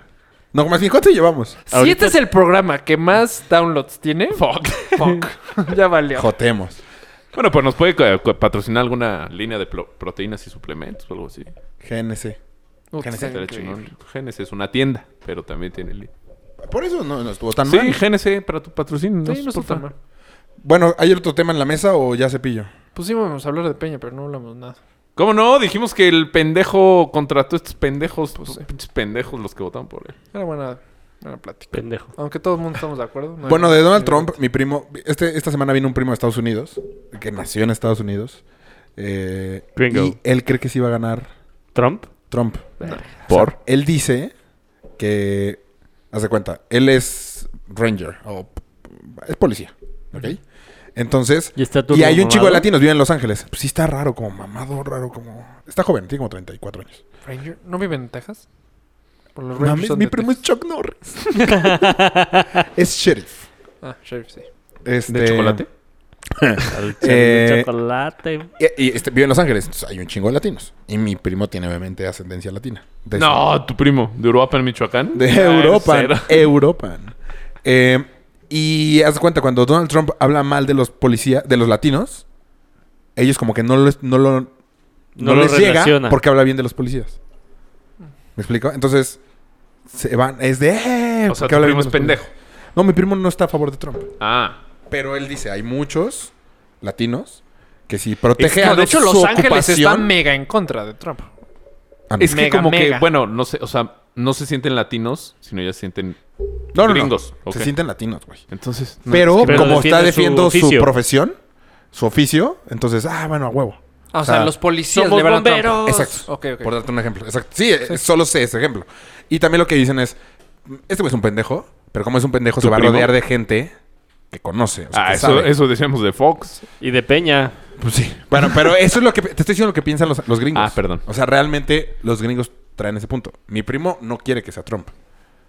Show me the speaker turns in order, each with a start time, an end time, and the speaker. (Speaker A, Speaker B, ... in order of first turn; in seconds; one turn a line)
Speaker A: 0.5-1.6
Speaker B: 1.7-6.3
Speaker C: 1.7-2.2
Speaker D: 4.3-5.2
Speaker A: 6.1-6.8
Speaker D: 7.3-11.5
Speaker A: 11.8-12.4
Speaker B: 12.9-13.8
Speaker A: 13.0-13.4
Speaker D: 13.2-16.1
Speaker A: 16.6-18.0
Speaker D: 17.6-19.8
Speaker B: 19.2-19.9
Speaker A: 20.6-22.7
Speaker B: 22.9-24.8
Speaker D: 25.1-30.1
Speaker B: 30.3-34.3
Speaker C: 31.7-32.1
Speaker A: 33.4-38.4
Speaker A: 39.0-41.3
Speaker C: 39.8-40.2
Speaker C: 41.7-42.1
Speaker A: 42.3-42.7
Speaker A: 43.2-44.3
Speaker D: 43.3-43.5
Speaker A: 45.0-45.6
Speaker A: 46.1-50.4
Speaker A: 50.9-57.0
Speaker C: 51.5-52.7
Speaker B: 57.2-58.4
Speaker B: 59.3-60.4
Speaker A: 59.6-61.8
Speaker C: 61.4-62.5
Speaker A: 62.6-63.4
Speaker B: 63.8-64.5
Speaker A: 64.8-65.6
Speaker D: 65.1-65.7
Speaker A: 66.3-67.7
Speaker C: 66.7-68.5
Speaker A: 68.6-73.4
Speaker D: 73.1-76.5
Speaker A: 75.1-82.2
Speaker A: 83.2-84.5
Speaker C: 85.2-86.2
Speaker A: 85.2-87.2
Speaker A: 88.3-89.2
Speaker A: 89.9-92.2
Speaker D: 91.3-92.3
Speaker A: 92.7-94.1
Speaker D: 94.2-94.6
Speaker A: 94.9-100.1
Speaker D: 98.4-98.6
Speaker B: 98.5-101.3
Speaker A: 102.1-102.4
Speaker D: 102.2-106.2
Speaker B: 102.2-103.1
Speaker D: 106.7-107.7
Speaker A: 106.7-108.4
Speaker D: 108.5-109.9
Speaker A: 109.0-111.4
Speaker C: 109.4-110.9
Speaker A: 111.9-114.5
Speaker B: 114.1-116.7
Speaker C: 114.9-116.2
Speaker A: 115.8-123.7
Speaker D: 122.6-123.1
Speaker A: 124.3-125.5
Speaker D: 124.9-126.6
Speaker C: 126.8-127.5
Speaker A: 127.8-134.9
Speaker D: 130.5-131.0